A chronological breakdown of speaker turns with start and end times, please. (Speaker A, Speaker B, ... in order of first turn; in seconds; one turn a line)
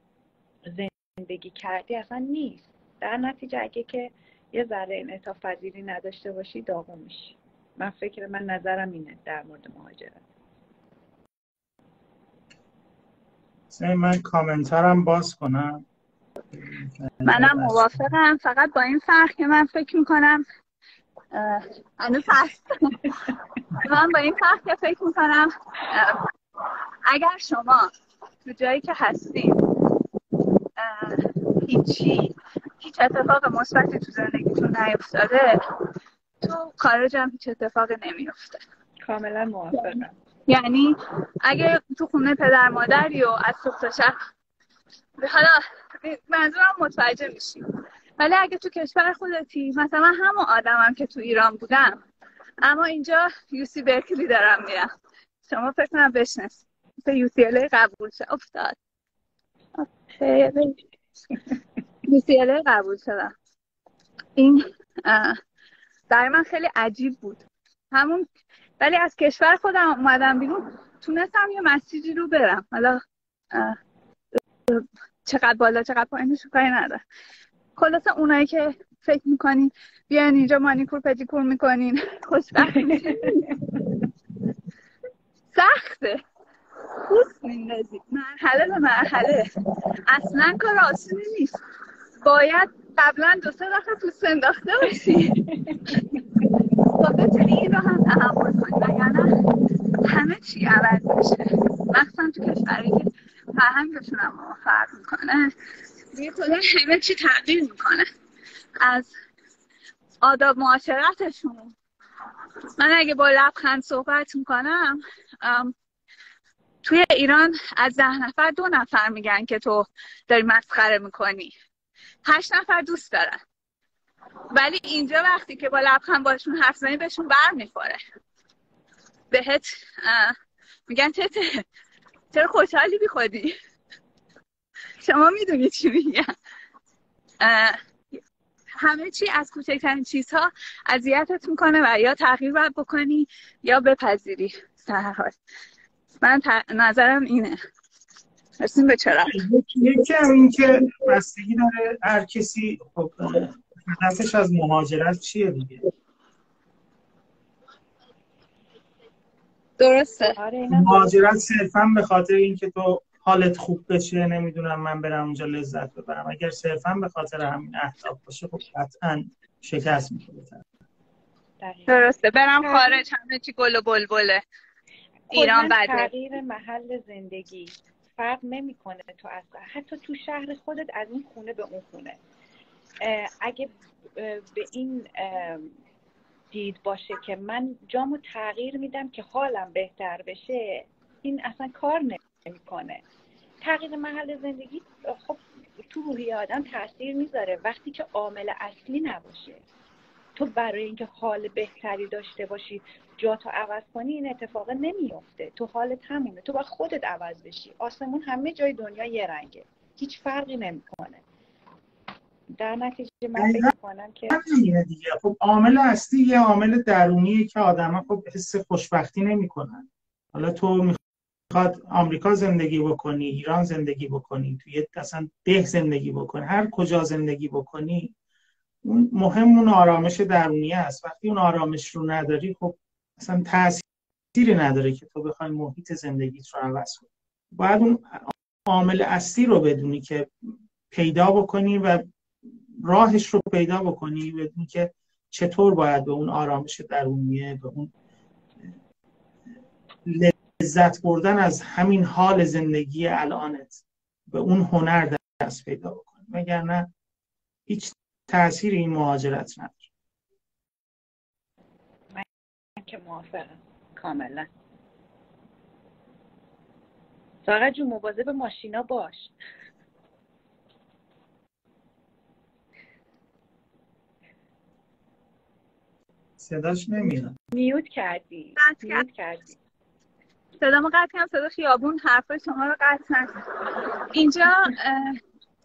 Speaker A: 0.7-10.2
Speaker B: 13.7-15.8
Speaker B: 16.5-17.9
Speaker C: 17.2-20.4
Speaker C: 21.3-26.2
Speaker C: 27.1-27.9
Speaker C: 28.4-29.6
Speaker C: 30.8-35.6
Speaker C: 36.4-38.6
Speaker A: 39.0-40.1
Speaker C: 39.7-44.1
Speaker C: 45.2-47.6
Speaker C: 48.2-52.0
Speaker C: 52.6-54.9
Speaker C: 55.5-58.8
Speaker C: 59.8-60.8
Speaker C: 62.0-63.3
Speaker C: 64.4-65.4
Speaker C: 66.1-68.2
Speaker C: 68.8-73.0
Speaker C: 73.5-73.8
Speaker C: 74.7-77.0
Speaker C: 77.8-83.6
Speaker A: 82.6-83.5
Speaker C: 85.5-86.2
Speaker C: 86.9-89.5
Speaker C: 90.1-91.6
Speaker C: 92.2-95.5
Speaker A: 95.5-95.8
Speaker C: 96.8-99.4
Speaker C: 100.0-105.5
Speaker C: 106.1-108.1
Speaker C: 108.8-109.1
Speaker C: 110.2-111.7
Speaker C: 112.8-115.7
Speaker C: 116.8-121.5
Speaker C: 122.2-123.4
Speaker C: 124.5-128.0
Speaker C: 129.3-130.3
Speaker C: 130.9-131.6
Speaker C: 132.3-133.5
Speaker C: 135.0-136.3
Speaker C: 137.4-137.8
Speaker C: 138.8-145.3
Speaker C: 146.2-147.6
Speaker C: 148.6-149.4
Speaker B: 149.3-155.8
Speaker C: 159.8-160.3
Speaker A: 160.4-161.3
Speaker B: 160.7-170.6
Speaker A: 171.6-173.0
Speaker C: 171.9-174.4
Speaker A: 175.3-182.2
Speaker C: 175.3-176.1
Speaker A: 183.0-185.7
Speaker A: 186.5-193.0
Speaker A: 193.6-199.6
Speaker A: 200.3-211.2
Speaker A: 212.5-214.4
Speaker B: 213.3-213.7
Speaker B: 214.3-221.0
Speaker B: 221.5-228.1
Speaker B: 228.8-240.3
Speaker B: 240.9-242.0
Speaker B: 242.8-247.9
Speaker B: 250.1-256.9
Speaker B: 257.7-259.9
Speaker A: 262.8-264.5
Speaker A: 267.4-269.3
Speaker B: 276.4-277.4
Speaker A: 277.5-279.6
Speaker C: 278.6-279.0
Speaker C: 280.6-283.4
Speaker C: 284.1-285.2